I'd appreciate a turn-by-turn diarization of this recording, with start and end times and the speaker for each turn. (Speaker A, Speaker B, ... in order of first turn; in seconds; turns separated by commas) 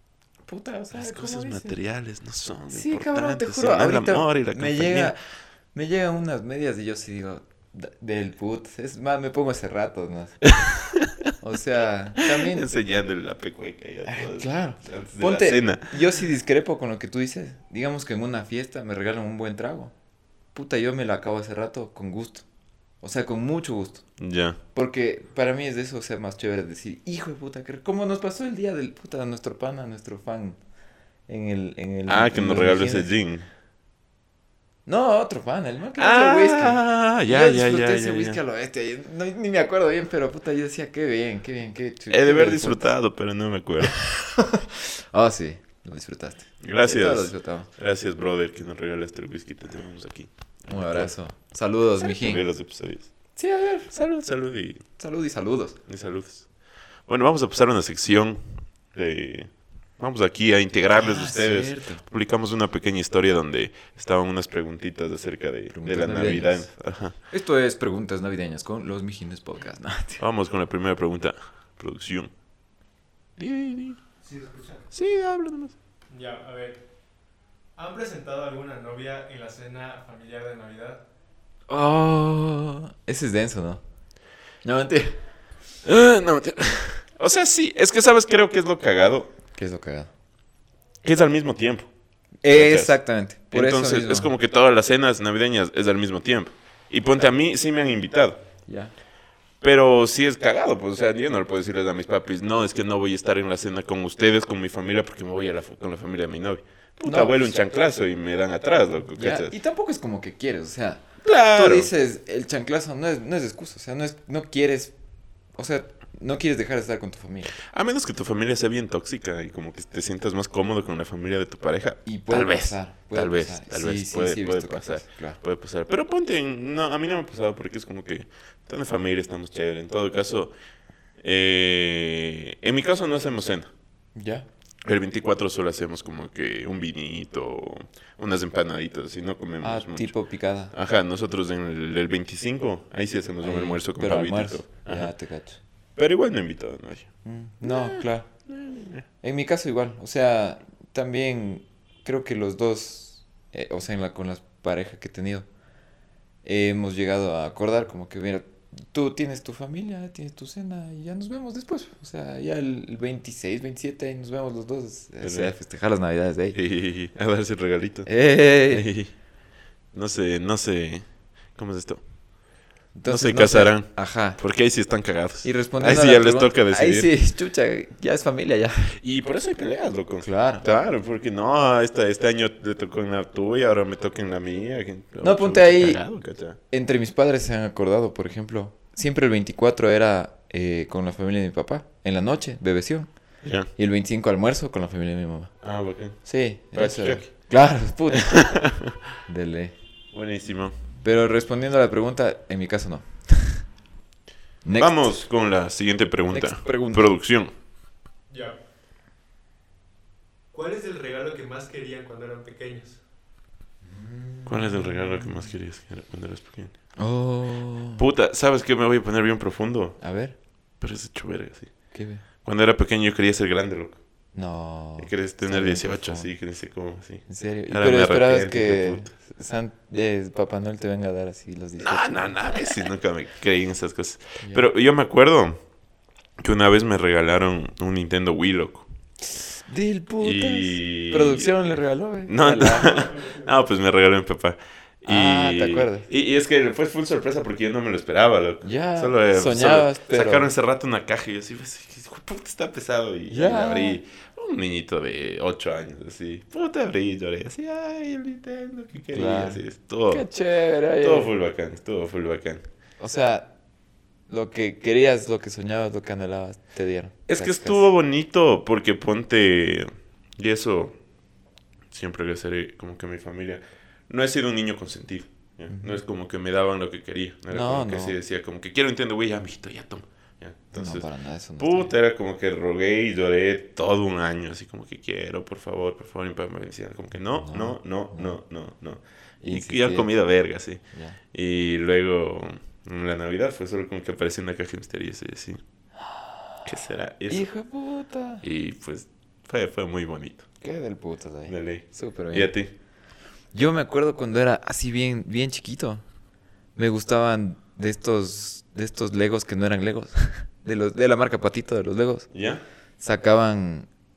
Speaker A: 0.5-1.8, Speaker B: 0.9-5.1, Speaker A: 2.7-5.2, Speaker A: 5.7-10.4, Speaker B: 10.6-11.1, Speaker A: 11.4-12.7, Speaker B: 12.3-16.0, Speaker A: 14.1-19.9, Speaker A: 20.5-22.4, Speaker A: 23.0-24.1, Speaker B: 24.2-24.6, Speaker A: 24.7-30.6, Speaker A: 31.3-33.1, Speaker B: 32.1-33.5, Speaker A: 34.9-42.9, Speaker B: 36.0-38.4, Speaker B: 42.1-44.0, Speaker A: 43.8-47.7, Speaker B: 46.6-51.1, Speaker A: 50.7-52.5, Speaker B: 52.0-53.1, Speaker A: 53.4-53.9, Speaker B: 53.9-54.8, Speaker A: 55.0-55.8, Speaker B: 55.9-56.5, Speaker B: 57.1-67.2, Speaker A: 60.9-62.0, Speaker A: 65.7-66.7, Speaker A: 67.3-70.2, Speaker B: 70.2-72.3, Speaker B: 73.4-74.0, Speaker C: 74.2-74.9, Speaker B: 74.9-75.8, Speaker C: 76.1-76.8, Speaker C: 77.8-81.0, Speaker A: 81.7-83.8, Speaker A: 84.6-85.2, Speaker B: 85.8-89.3, Speaker A: 89.5-90.1, Speaker B: 91.0-91.9, Speaker A: 92.4-94.3, Speaker B: 92.5-93.0, Speaker B: 93.5-98.4, Speaker A: 98.7-98.9, Speaker B: 99.6-109.5, Speaker A: 107.0-107.5, Speaker A: 109.2-114.9, Speaker B: 111.2-111.9, Speaker A: 115.6-117.6, Speaker B: 117.6-130.5, Speaker A: 122.0-125.4, Speaker B: 131.2-133.7, Speaker A: 134.2-134.5, Speaker B: 134.8-140.1, Speaker A: 139.6-140.7, Speaker B: 140.7-145.1, Speaker A: 143.4-145.6, Speaker B: 146.0-147.1, Speaker A: 147.2-148.3, Speaker B: 147.6-149.1, Speaker A: 149.2-155.5, Speaker A: 156.4-166.6, Speaker B: 165.2-165.5, Speaker B: 166.5-168.1, Speaker A: 168.1-168.9, Speaker B: 168.7-169.1, Speaker B: 169.9-172.0, Speaker A: 172.9-174.4, Speaker B: 173.1-177.1, Speaker A: 175.4-178.9, Speaker B: 179.0-186.6, Speaker A: 180.2-180.7, Speaker A: 185.2-186.0, Speaker A: 186.7-193.1, Speaker B: 193.4-193.7, Speaker A: 193.8-195.5, Speaker B: 195.6-196.2, Speaker A: 196.2-198.7, Speaker B: 196.7-197.3, Speaker B: 198.1-199.0, Speaker A: 199.3-199.7, Speaker B: 200.1-200.7, Speaker A: 201.0-203.6, Speaker A: 204.7-205.2, Speaker B: 204.8-207.5, Speaker A: 206.3-207.1, Speaker C: 208.3-208.6, Speaker C: 210.5-213.0, Speaker A: 213.9-215.5, Speaker B: 214.5-216.7, Speaker A: 217.0-218.0, Speaker B: 218.0-220.0, Speaker A: 220.0-220.3, Speaker B: 220.8-221.7, Speaker A: 221.9-222.2, Speaker B: 222.4-224.0, Speaker A: 224.3-226.3, Speaker B: 225.0-229.1, Speaker A: 227.3-232.8, Speaker B: 231.8-235.6, Speaker A: 234.4-234.7, Speaker B: 236.4-238.9, Speaker A: 239.3-243.1, Speaker B: 240.2-260.3, Speaker A: 245.1-246.1, Speaker A: 248.6-250.5, Speaker A: 253.3-254.0, Speaker A: 259.1-261.3, Speaker B: 261.0-262.6, Speaker A: 263.0-263.5, Speaker A: 264.3-267.9, Speaker B: 267.3-271.0, Speaker B: 271.9-281.1, Speaker A: 275.7-276.0, Speaker A: 277.5-278.1, Speaker A: 280.8-281.9, Speaker B: 281.6-290.8, Speaker A: 287.4-288.4, Speaker A: 289.4-290.1, Speaker A: 290.9-291.2, Speaker B: 291.3-295.6, Speaker A: 296.1-296.7, Speaker B: 296.6-297.5, Speaker A: 297.3-298.4, Speaker B: 298.4-300.5, Speaker A: 300.6-302.5, Speaker B: 301.5-302.7, Speaker A: 303.5-306.0, Speaker A: 306.8-312.3, Speaker B: 312.3-312.6, Speaker A: 313.0-313.9